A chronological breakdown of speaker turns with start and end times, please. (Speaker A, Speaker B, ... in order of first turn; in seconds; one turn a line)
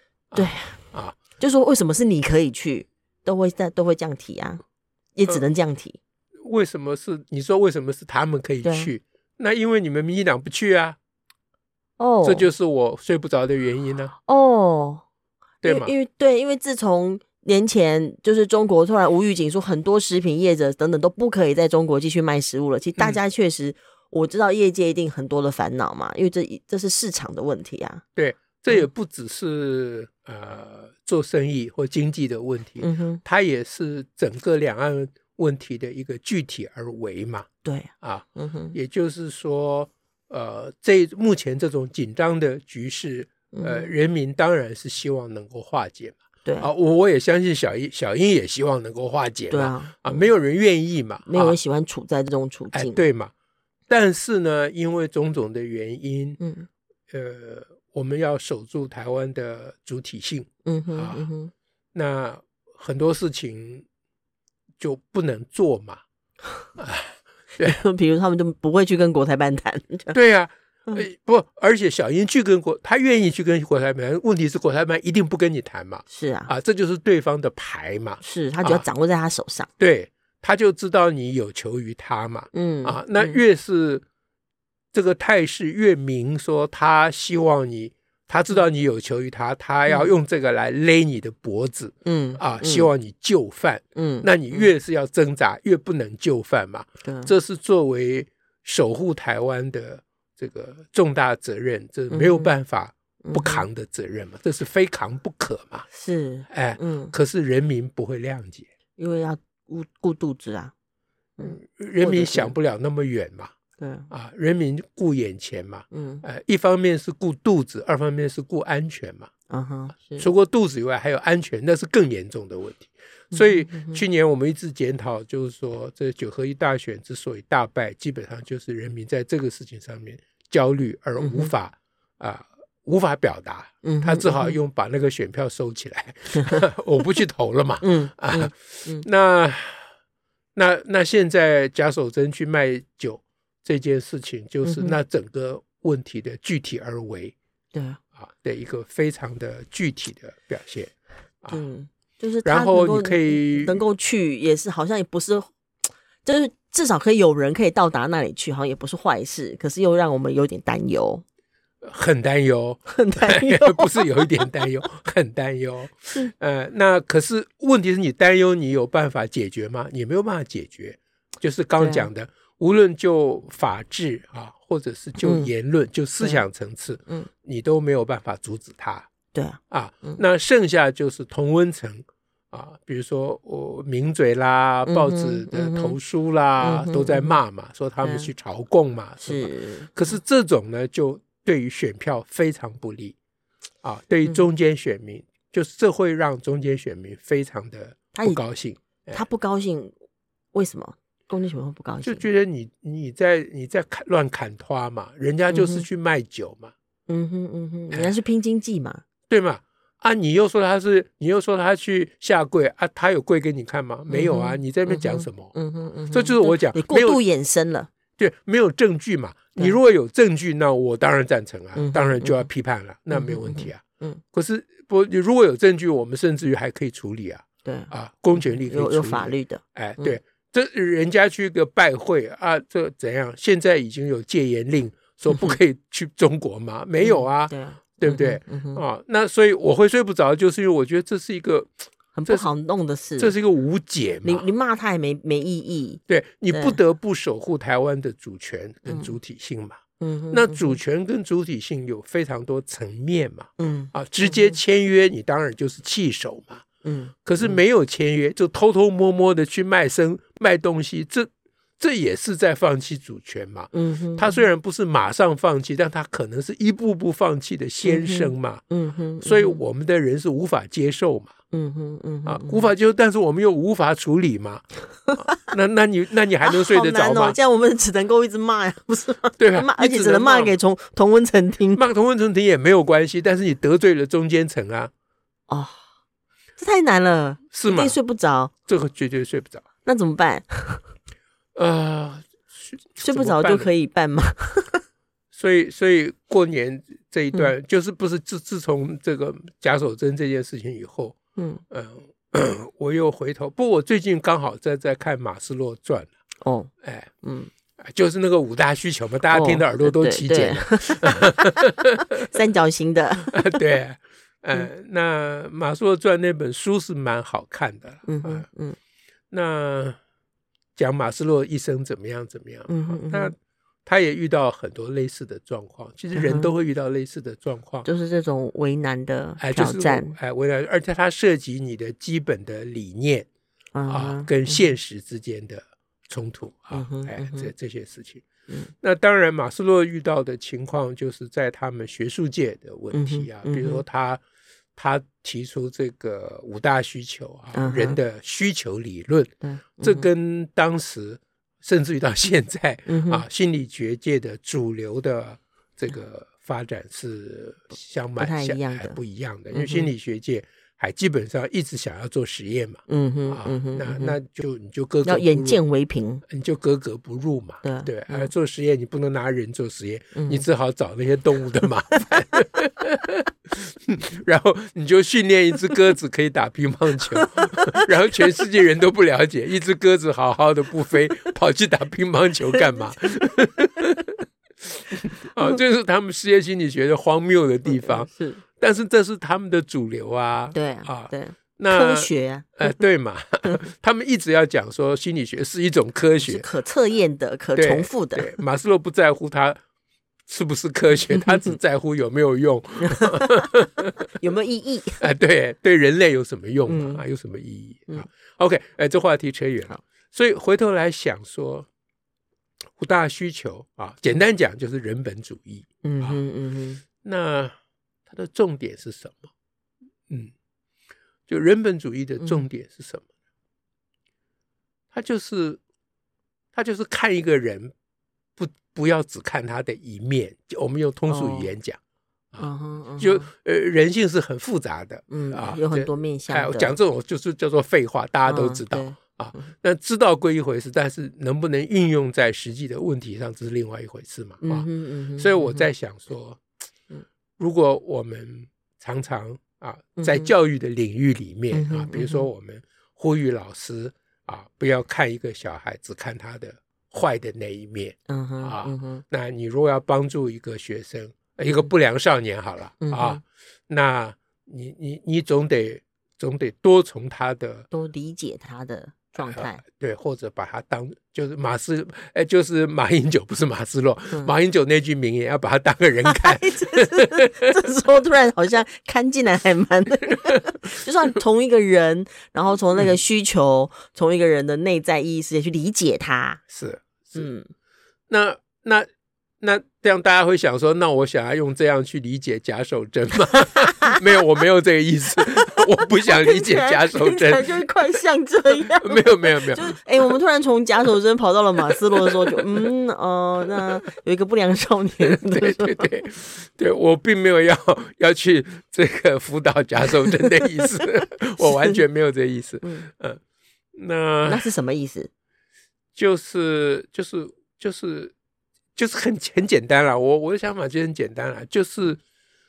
Speaker A: 0.3-1.2
Speaker B: 0.3-0.8
Speaker B: 1.4-4.6
Speaker B: 5.2-6.0
Speaker A: 6.4-11.0
Speaker B: 8.6-8.9
Speaker B: 12.0-12.5
Speaker A: 12.2-14.1
Speaker B: 14.3-15.0
Speaker A: 15.6-15.9
Speaker B: 15.7-28.0
Speaker A: 28.2-37.5
Speaker B: 32.8-33.2
Speaker B: 37.6-38.8
Speaker A: 38.0-51.6
Speaker B: 43.5-43.9
Speaker B: 49.5-50.3
Speaker B: 51.2-53.0
Speaker A: 52.7-53.3
Speaker A: 53.9-56.4
Speaker B: 56.4-56.7
Speaker A: 57.1-61.3
Speaker B: 60.6-61.5
Speaker A: 62.0-63.9
Speaker A: 64.8-66.0
Speaker A: 66.8-67.8
Speaker B: 67.6-70.2
Speaker A: 70.1-78.8
Speaker B: 76.1-76.5
Speaker B: 78.2-79.7
Speaker A: 79.8-84.0
Speaker B: 82.5-83.4
Speaker A: 84.9-105.9
Speaker B: 92.0-92.9
Speaker B: 94.0-94.7
Speaker B: 97.0-97.3
Speaker B: 102.1-102.5
Speaker B: 103.2-103.7
Speaker B: 105.9-107.1
Speaker A: 106.5-108.7
Speaker B: 109.0-110.7
Speaker B: 111.4-112.6
Speaker A: 111.4-113.5
Speaker B: 113.8-114.1
Speaker A: 114.1-119.3
Speaker B: 115.9-116.2
Speaker B: 119.5-120.3
Speaker A: 120.2-139.8
Speaker B: 123.3-124.0
Speaker B: 131.2-131.5
Speaker B: 133.8-134.6
Speaker B: 136.3-136.6
Speaker B: 137.8-139.1
Speaker A: 140.5-147.3
Speaker B: 144.6-145.0
Speaker B: 147.7-148.0
Speaker A: 148.2-150.9
Speaker B: 151.5-155.5
Speaker A: 152.4-153.8
Speaker B: 156.2-161.2
Speaker A: 161.8-179.1
Speaker B: 162.9-164.5
Speaker B: 171.8-172.1
Speaker B: 175.2-175.5
Speaker B: 179.3-180.2
Speaker A: 179.7-193.2
Speaker B: 184.8-186.0
Speaker B: 186.6-187.4
Speaker B: 188.0-188.3
Speaker B: 189.2-190.2
Speaker A: 193.8-199.2
Speaker B: 198.1-198.4
Speaker B: 199.1-199.9
Speaker B: 200.5-202.2
Speaker A: 202.0-206.7
Speaker B: 205.5-205.9
Speaker B: 207.1-209.0
Speaker A: 209.3-215.5
Speaker B: 214.1-217.9
Speaker A: 216.1-217.2
Speaker A: 218.2-223.8
Speaker B: 221.8-222.5
Speaker B: 223.1-224.2
Speaker A: 224.3-241.7
Speaker B: 227.6-230.2
Speaker B: 235.3-235.6
Speaker B: 237.0-238.8
Speaker B: 242.2-243.3
Speaker A: 243.2-244.5
Speaker B: 244.2-246.8
Speaker A: 246.1-249.8
Speaker B: 248.9-249.2
Speaker B: 250.0-250.8
Speaker A: 250.3-256.6
Speaker B: 253.6-254.6
Speaker B: 256.8-257.6
Speaker A: 257.2-268.6
Speaker B: 263.7-264.4
Speaker B: 267.8-269.6
Speaker A: 269.2-271.3
Speaker B: 271.5-272.7
Speaker A: 272.2-274.6
Speaker A: 275.1-277.4
Speaker B: 276.4-281.8
Speaker A: 279.4-280.6
Speaker A: 281.8-284.9
Speaker B: 285.5-285.8
Speaker B: 286.6-288.5
Speaker A: 287.5-288.0
Speaker A: 288.7-289.6
Speaker B: 289.9-290.9
Speaker A: 291.5-293.7
Speaker B: 293.0-294.8
Speaker A: 295.3-301.1
Speaker B: 301.4-301.6
Speaker A: 301.7-306.1
Speaker B: 306.4-306.7
Speaker A: 306.8-307.1
Speaker B: 307.2-307.5
Speaker A: 307.8-312.1
Speaker B: 309.3-311.5
Speaker B: 312.1-313.4
Speaker A: 313.3-318.5
Speaker B: 318.1-318.8
Speaker A: 319.3-320.0
Speaker A: 320.8-323.3
Speaker B: 322.7-323.3
Speaker A: 323.9-327.9
Speaker B: 326.1-326.5
Speaker B: 327.9-330.1
Speaker A: 329.4-333.3
Speaker B: 333.8-334.7
Speaker A: 333.9-338.2
Speaker B: 336.7-337.5
Speaker A: 338.8-344.2
Speaker B: 342.9-343.8
Speaker A: 344.8-365.6
Speaker B: 347.5-348.0
Speaker B: 349.4-350.1
Speaker B: 352.9-353.2
Speaker B: 358.2-359.0
Speaker B: 359.5-359.9
Speaker B: 362.9-364.2
Speaker B: 365.0-366.2
Speaker A: 366.3-396.4
Speaker B: 367.6-368.3
Speaker B: 370.1-370.4
Speaker B: 387.6-388.4
Speaker B: 390.5-392.8
Speaker B: 396.2-398.4
Speaker A: 397.6-399.6
Speaker A: 400.3-403.9
Speaker B: 401.1-401.5
Speaker B: 402.9-403.4
Speaker B: 404.1-405.0
Speaker A: 405.0-411.7
Speaker B: 406.7-407.0
Speaker A: 412.8-416.2
Speaker B: 415.8-416.8
Speaker A: 417.0-417.5
Speaker A: 418.1-419.3
Speaker A: 421.3-423.1
Speaker B: 422.2-422.4
Speaker A: 424.9-425.6
Speaker A: 426.5-427.7
Speaker A: 428.4-431.8
Speaker B: 431.1-431.5
Speaker A: 432.3-446.4
Speaker B: 432.4-433.3
Speaker B: 435.1-436.8
Speaker B: 438.3-439.5
Speaker B: 444.4-445.7
Speaker A: 447.4-467.7
Speaker B: 450.0-450.3
Speaker B: 451.5-452.3
Speaker B: 458.1-459.0
Speaker B: 462.8-463.2
Speaker B: 467.7-469.6
Speaker A: 469.2-477.5
Speaker B: 476.1-486.4
Speaker A: 486.5-487.3
Speaker B: 487.1-487.5
Speaker A: 488.1-488.9
Speaker A: 489.4-497.6
Speaker B: 493.4-493.9
Speaker B: 496.1-505.9
Speaker A: 498.6-499.8
Speaker A: 502.0-502.4
Speaker A: 505.1-513.2
Speaker B: 511.4-511.8
Speaker B: 512.6-512.9
Speaker A: 513.8-514.5
Speaker B: 514.2-515.1
Speaker A: 516.0-518.1
Speaker A: 518.8-522.0